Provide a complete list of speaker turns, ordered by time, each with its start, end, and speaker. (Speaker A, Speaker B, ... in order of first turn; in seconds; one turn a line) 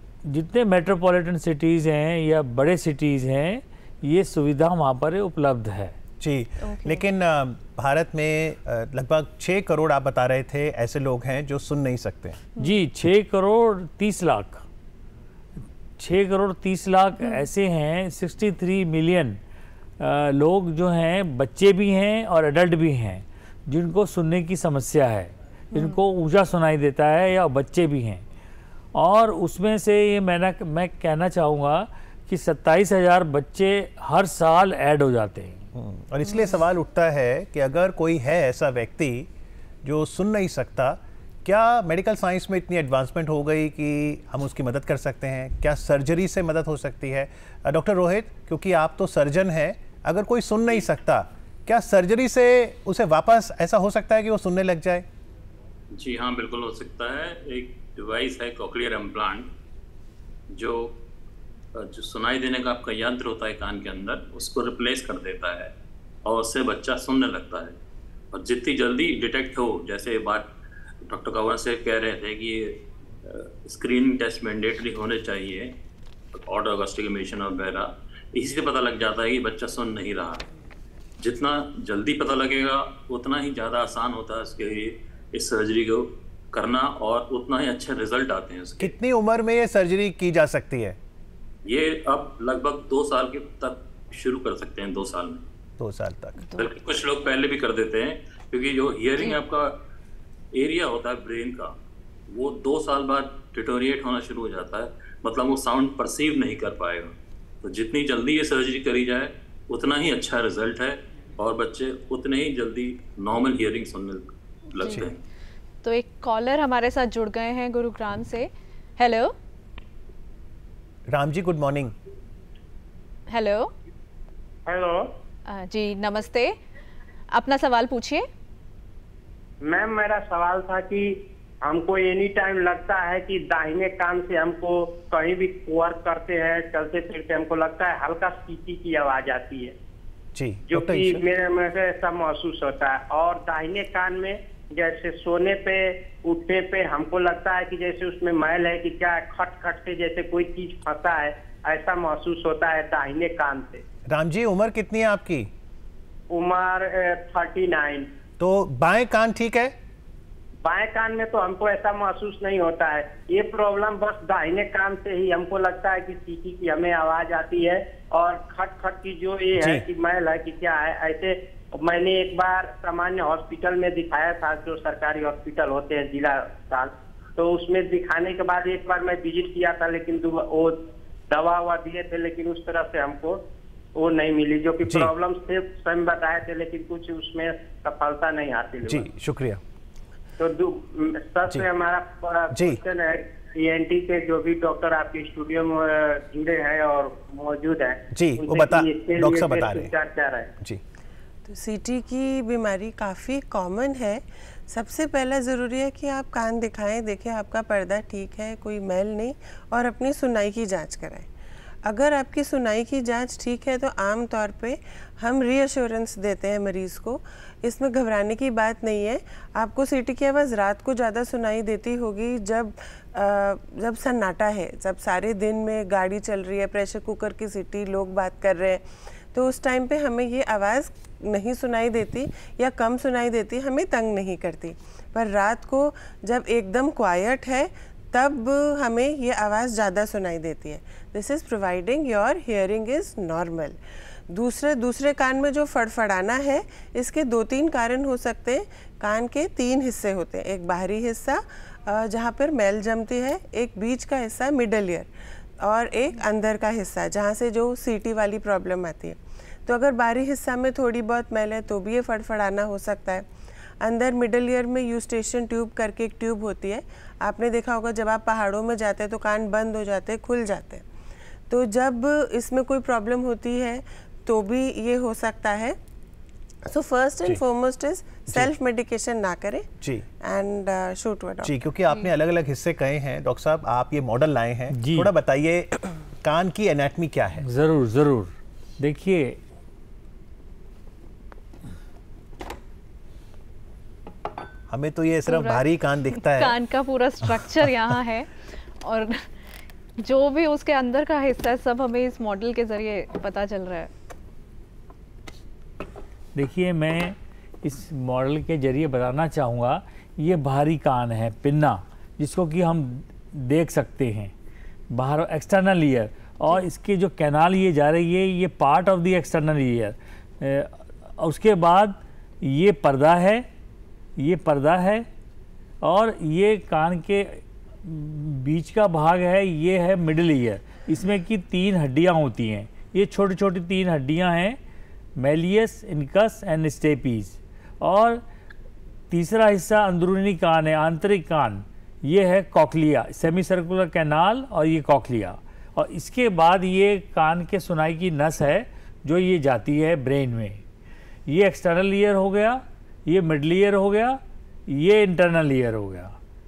Speaker A: 0.2-6.0
Speaker B: 6.2-12.4
Speaker C: 6.6-7.0
Speaker A: 12.6-14.7
Speaker A: 16.0-19.4
Speaker A: 20.0-28.2
Speaker C: 25.7-26.0
Speaker A: 28.9-35.7
Speaker B: 35.7-39.3
Speaker B: 39.8-55.0
Speaker D: 55.9-59.5
Speaker D: 60.5-61.0
Speaker D: 61.8-65.7
Speaker D: 66.2-67.8
Speaker D: 68.3-70.5
Speaker D: 71.0-75.7
Speaker D: 76.3-80.5
Speaker D: 81.2-88.9
Speaker B: 88.8-91.0
Speaker D: 91.7-95.4
Speaker B: 95.8-96.4
Speaker D: 96.6-99.7
Speaker D: 100.5-101.7
Speaker D: 102.3-115.2
Speaker C: 115.8-119.3
Speaker B: 121.1-121.9
Speaker C: 123.3-123.7
Speaker E: 124.7-125.1
Speaker C: 125.5-126.5
Speaker C: 127.3-128.2
Speaker E: 129.6-139.8
Speaker B: 140.3-141.3
Speaker E: 140.7-153.8
Speaker B: 154.1-155.5
Speaker E: 156.3-158.1
Speaker B: 158.4-159.7
Speaker E: 160.6-183.4
Speaker B: 169.5-169.9
Speaker E: 183.9-189.1
Speaker B: 184.8-185.1
Speaker B: 188.8-189.6
Speaker E: 190.4-200.5
Speaker B: 192.5-192.8
Speaker B: 198.1-199.9
Speaker F: 201.5-211.3
Speaker F: 211.8-228.8
Speaker F: 229.3-243.8
Speaker F: 244.3-255.1
Speaker F: 255.6-263.2
Speaker F: 263.8-270.8
Speaker F: 271.5-275.8
Speaker F: 276.7-279.7
Speaker B: 279.8-280.1
Speaker F: 280.2-281.5
Speaker B: 281.4-287.4
Speaker A: 284.7-285.1
Speaker A: 287.4-289.4
Speaker B: 294.7-296.6
Speaker C: 295.3-298.3
Speaker C: 298.8-299.1
Speaker C: 300.0-303.9
Speaker A: 306.4-314.3
Speaker A: 314.9-323.5
Speaker A: 324.2-325.1
Speaker A: 325.8-334.6
Speaker A: 335.2-338.2
Speaker A: 339.1-350.6
Speaker A: 351.3-356.1